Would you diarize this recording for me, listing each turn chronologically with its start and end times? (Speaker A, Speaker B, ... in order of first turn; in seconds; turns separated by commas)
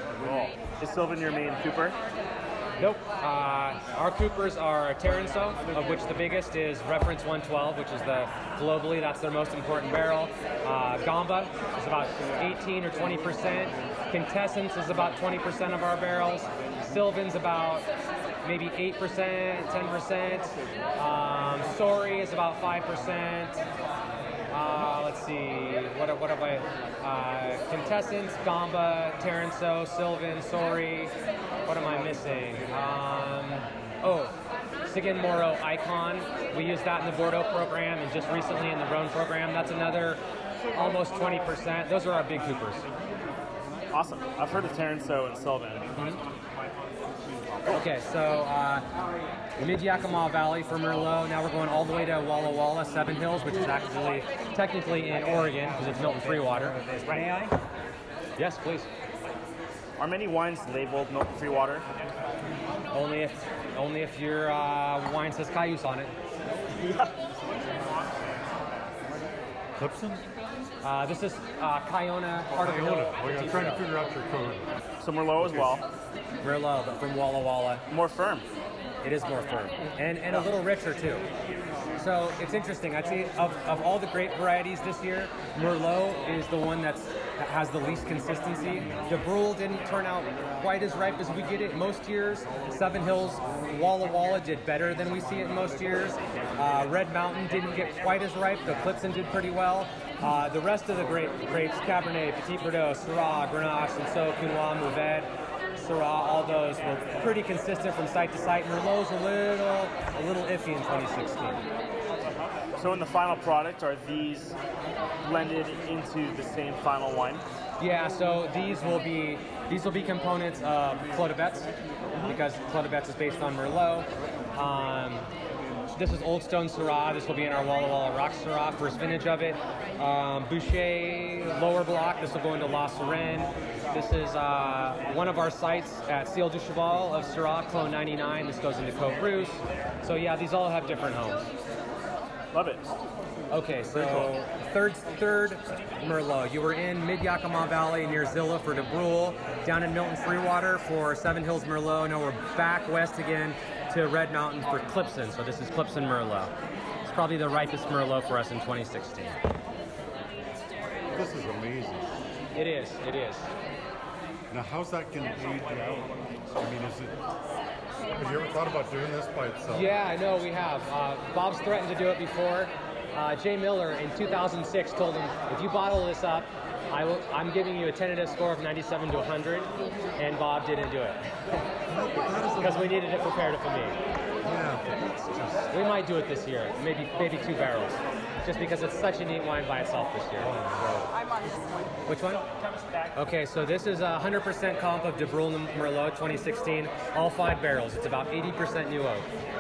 Speaker A: 0.2-2.0, Speaker B: 2.8-17.9, Speaker B: 18.4-23.6, Speaker B: 24.5-31.1, Speaker B: 31.7-34.4, Speaker B: 34.9-40.2, Speaker B: 40.7-42.9, Speaker A: 43.9-45.9, Speaker B: 46.0-46.2, Speaker B: 47.7-48.9, Speaker B: 49.6-56.8, Speaker A: 57.0-57.3, Speaker B: 58.4-58.9, Speaker A: 60.0-61.9, Speaker B: 62.9-66.1, Speaker C: 69.8-70.2, Speaker B: 70.8-73.9, Speaker C: 72.6-74.6, Speaker A: 75.0-75.8, Speaker B: 76.4-77.8, Speaker A: 77.9-78.5, Speaker B: 79.0-81.3, Speaker B: 82.0-111.6, Speaker A: 112.8-114.6, Speaker A: 115.2-117.4, Speaker B: 117.8-121.7, Speaker B: 122.2-125.3, Speaker B: 126.0-141.5, Speaker A: 142.5-142.9, Speaker B: 143.5-156.5, Speaker A: 143.9-144.3, Speaker B: 157.1-159.4, Speaker C: 161.1-162.0, Speaker B: 162.6-163.5, Speaker C: 164.5-167.1, Speaker C: 168.1-169.8, Speaker B: 169.7-181.2, Speaker C: 182.0-182.8, Speaker B: 182.5-184.0, Speaker C: 184.4-185.6, Speaker B: 185.7-191.1, Speaker C: 190.5-190.9, Speaker B: 192.1-192.5, Speaker A: 192.6-193.0, Speaker B: 193.1-199.3